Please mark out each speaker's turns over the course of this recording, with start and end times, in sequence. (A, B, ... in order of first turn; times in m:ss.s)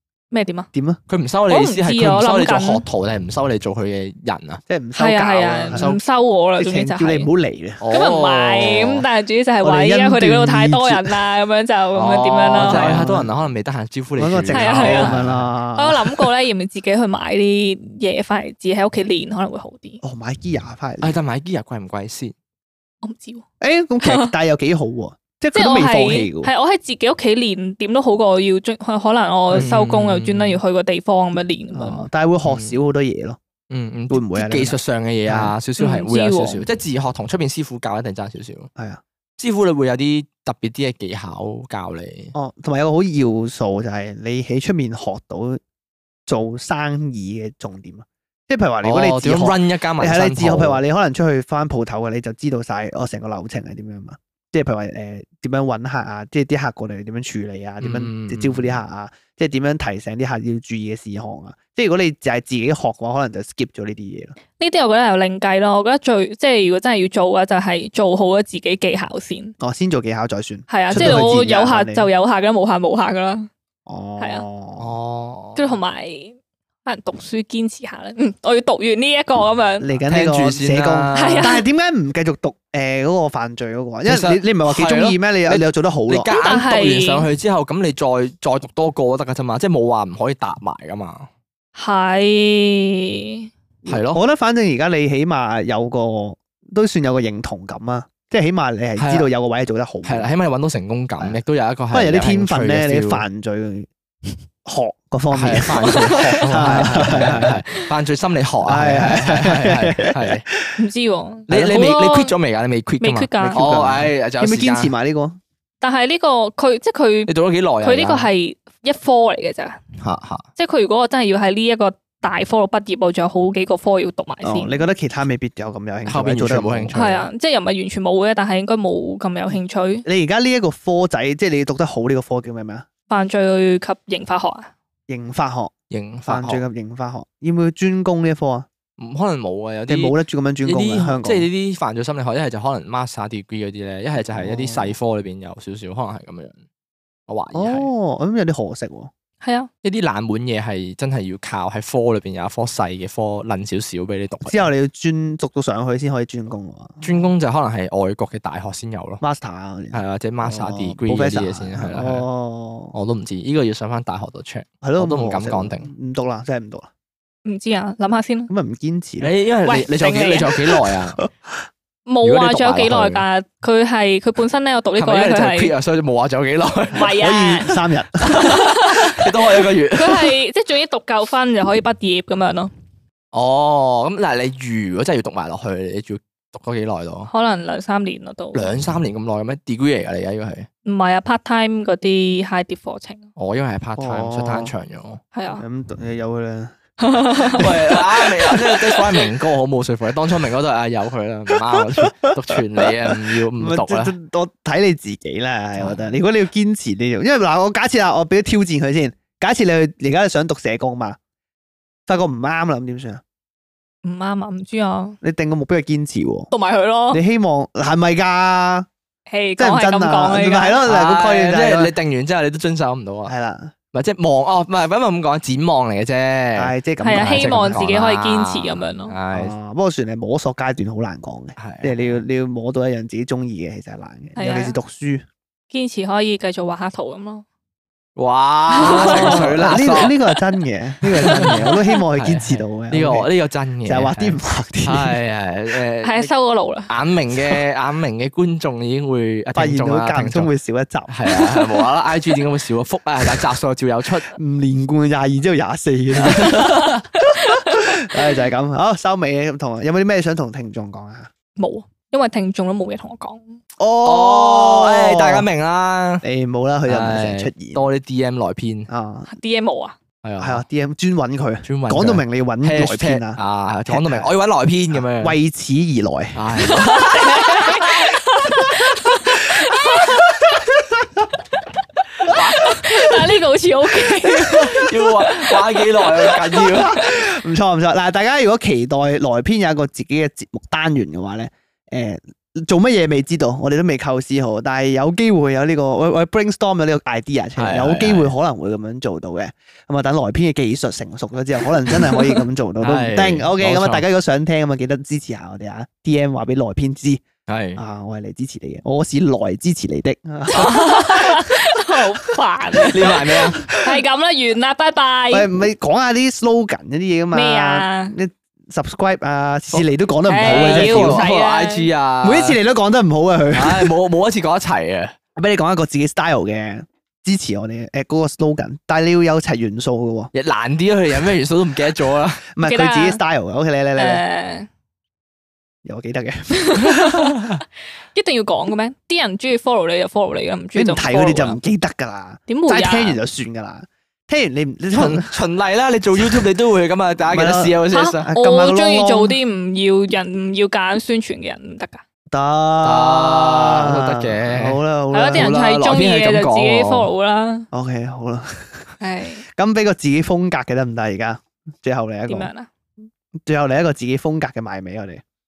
0:00.3-0:00.7 A
0:00.7-0:01.0 B
0:01.1-0:04.6 C
0:01.5-0:02.8 A
0:04.7-0:05.8 B
0:05.0-0:07.3 A
0:05.7-0:06.0 C
0:06.6-0:07.8 B
0:07.8-0:09.0 C
0:07.9-0:13.0 A
0:09.6-0:11.2 B
0:11.9-0:15.5 C
0:12.6-0:13.3 B
0:14.2-0:16.2 B
0:14.5-0:15.2 A
0:15.7-0:20.0 A
0:20.0-0:21.2 B
0:21.0-0:22.3 C
0:23.0-0:23.4 A
0:23.6-0:26.5 B
0:24.0-0:24.3 A
0:25.5-0:32.1 A
0:29.5-0:30.6 C
0:31.7-0:33.4 B
0:32.4-0:32.8 C
0:33.7-0:38.7 C
0:34.1-0:35.5 B
0:35.8-0:36.6 A
0:39.4-0:42.3 C
0:42.3-0:45.6 B
0:46.3-1:04.4 B
0:48.8-0:50.8 C
0:57.8-0:58.8 C
1:04.6-1:09.5 A
1:09.6-1:12.1 B
1:10.7-1:13.5 A
1:11.0-1:11.2 C
1:13.8-1:14.9 B
1:14.2-1:14.4 A
1:14.8-1:15.8 C
1:15.6-1:19.9 A
1:19.8-1:26.3 B
1:20.1-1:21.5 C
1:21.1-1:21.6 A
1:24.0-1:31.3 C
1:26.3-1:27.2 A
1:31.8-1:33.5 A
1:33.8-1:40.3 B
1:33.9-1:34.2 C
1:39.0-1:39.3 C
1:40.0-1:43.2 C
1:41.9-1:43.9 B
1:44.6-1:47.5 B
1:45.3-1:50.4 C
1:45.9-1:46.4 A
1:48.6-1:50.8 B
1:50.8-1:52.3 A
1:51.5-1:54.9 C
1:53.0-1:53.7 A
1:53.4-1:55.4 B
1:55.8-1:57.3 A
1:57.3-1:58.3 C
1:57.8-1:59.8 A
2:00.0-2:00.4 C
2:00.6-2:04.9 A
2:04.4-2:07.0 B
2:06.0-2:07.3 C
2:06.9-2:10.0 A
2:10.0-2:12.8 B
2:13.1-2:14.7 A
2:15.1-2:15.7 B
2:15.9-2:16.6 C
2:16.2-2:18.7 B
2:19.0-2:26.6 C
2:19.9-2:21.5 B
2:24.2-2:25.0 B
2:27.3-2:27.9 C
2:27.5-2:29.1 B
2:29.4-2:29.7 A
2:29.8-2:34.7 C
2:34.4-2:37.2 B
2:37.0-2:39.2 C
2:39.2-2:42.9 B
2:39.9-2:42.2 C
2:42.9-2:45.9 C
2:44.8-2:46.9 B
2:47.4-2:48.5 A
2:48.5-2:49.3 B
2:49.2-2:51.2 C
2:49.6-2:50.6 A
2:52.0-2:55.7 A
2:52.2-2:53.2 C
2:55.0-2:57.2 C
2:56.9-2:58.4 B
2:56.9-3:02.7 A
2:58.2-3:00.4 C
3:03.3-3:07.3 C
3:07.3-3:08.8 A
3:08.5-3:10.7 C
3:10.8-3:13.3 A
3:13.4-3:15.2 C
3:14.0-3:14.7 B
3:15.3-3:15.6 A
3:15.5-3:16.7 B
3:17.0-3:19.3 A
3:17.5-3:24.1 C
3:21.7-3:31.2 B
3:25.8-3:26.1 C
3:32.1-3:33.2 B
3:34.0-3:35.2 A
3:35.2-3:36.5 B
3:36.5-3:37.2 A
3:37.1-3:38.9 B
3:39.3-3:40.8 A
3:39.6-3:41.9 B
3:40.8-3:43.3 C
3:43.2-3:43.7 B
3:43.9-3:49.5 C
3:46.6-3:47.8 B
3:47.0-3:49.1 A
3:49.3-3:55.2 B
3:51.6-3:52.2 C
3:54.4-3:54.8 A
3:55.7-3:57.4 A
3:58.2-4:00.1 C
3:58.7-4:03.3 B
3:58.8-3:59.5 A
4:01.2-4:01.6 C
4:02.2-4:06.3 C
4:03.8-4:05.2 B
4:06.0-4:06.9 A
4:06.9-4:10.5 C
4:09.5-4:11.2 B
4:11.1-4:14.3 C
4:11.4-4:11.8 A
4:14.3-4:21.3 B
4:16.1-4:17.0 C
4:21.6-4:23.6 A
4:23.8-4:25.4 B
4:24.0-4:26.2 C
4:26.2-4:27.8 B
4:26.8-4:28.9 C
4:28.9-4:29.3 B
4:29.3-4:30.0 A
4:30.2-4:30.6 C
4:30.4-4:34.3 B
4:31.6-4:35.4 C
4:34.9-4:36.4 B
4:36.3-4:38.1 C
4:36.6-4:40.4 A
4:42.2-4:46.8 A
4:42.3-4:42.7 C
4:44.0-4:47.0 C
4:46.8-5:07.2 B
4:57.6-4:58.3 C
5:02.8-5:04.0 C
5:07.5-5:07.8 C
5:07.8-5:12.0 B
5:10.5-5:15.5 A
5:12.7-5:14.0 B
5:12.9-5:13.6 C
5:15.3-5:21.2 B
5:17.3-5:18.2 A
5:20.3-5:21.9 A
5:20.4-5:22.6 C
5:22.2-5:23.9 B
5:23.5-5:25.1 C
5:25.4-5:30.3 B
5:30.3-5:32.4 C
5:32.6-5:34.2 B
5:32.6-5:33.2 A
5:34.0-5:34.7 A
5:35.8-5:37.3 B
5:36.6-5:37.5 A
5:38.1-5:41.6 A
5:40.7-5:45.3 B
5:42.5-5:43.2 A
5:44.9-5:48.2 C
5:46.2-5:46.5 B
5:47.3-5:49.4 B
5:47.9-5:52.0 A
5:52.3-5:55.6 B
5:52.8-5:54.8 C
5:55.1-5:57.7 A
5:55.3-5:57.1 C
5:57.7-5:58.9 B
5:59.0-5:59.4 A
5:59.5-6:02.5 B
6:02.3-6:02.7 A
6:03.4-6:05.2 B